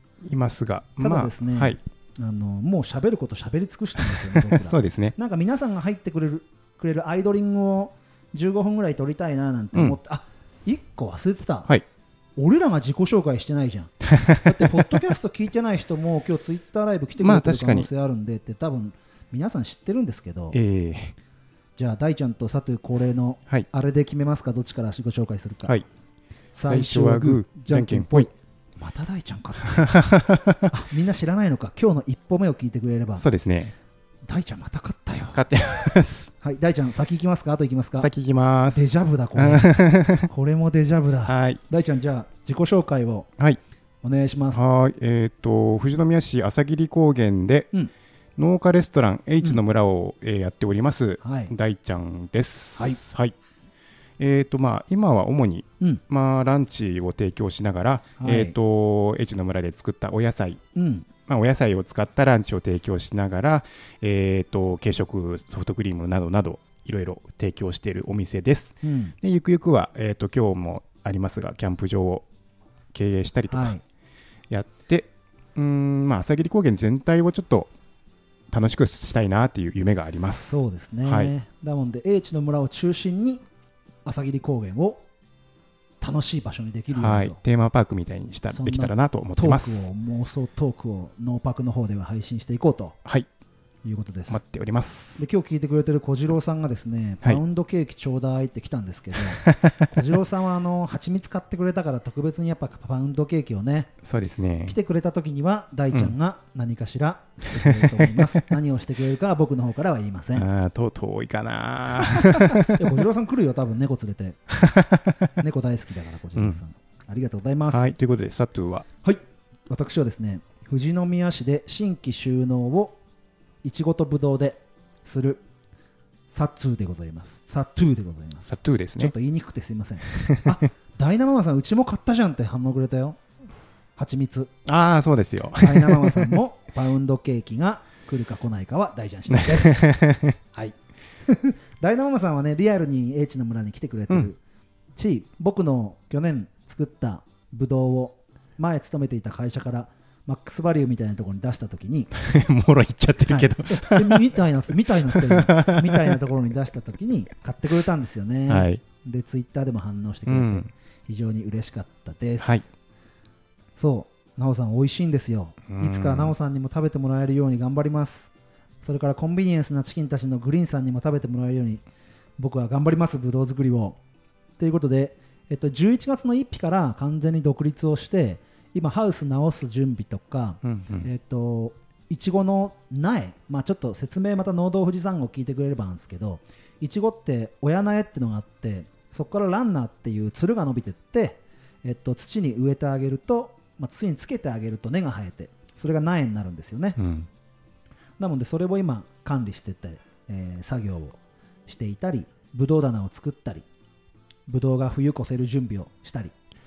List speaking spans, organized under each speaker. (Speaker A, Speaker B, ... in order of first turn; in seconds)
Speaker A: 0.2-1.8, 4.0-5.2, 9.7-10.0, 14.1-15.0, 17.2-17.9, 20.5-21.1, 26.6-28.3, 29.7-30.7, 33.2-33.7, 35.3-36.3, 38.0-40.3, 41.3-41.6, 44.5-47.7, 48.4-53.4, 54.2-60.6, 61.3-72.2, 72.9-73.7, 74.5-77.7, 78.5-81.3, 86.9-89.9, 94.3-95.2, 99.4-99.8, 104.0-104.8, 107.5-108.3, 110.3-112.9, 114.5-115.3, 117.7-118.9, 128.5-129.1, 130.1-130.6, 134.7-136.3, 139.3-140.4, 152.2-154.3, 155.1-156.2, 158.5-158.8, 160.3-160.7, 165.7-166.3, 180.6-181.1, 197.0-197.3
Speaker B: 1.0-11.7, 12.4-20.6, 21.8-25.8, 26.5-30.1, 30.7-33.2, 34.3-35.4, 36.4-38.1, 38.7-43.3, 44.0-44.6, 51.2-51.5, 58.2-58.6, 60.8-61.1, 68.8-69.2, 73.5-73.8, 80.5-83.4, 84.0-85.0, 86.0-87.4, 88.5-93.0, 93.8-94.4, 95.2-103.9, 104.7-110.5, 112.1-114.4, 115.4-117.9, 119.0-123.0, 123.6-125.4, 126.3-133.2, 134.0-134.5, 135.6-140.8, 141.3-144.4, 145.0-152.1, 153.3-162.7, 163.8-168.3, 168.8-171.8, 172.4-174.0, 174.6-197.0, 198.2-203.7, 204.5-206.3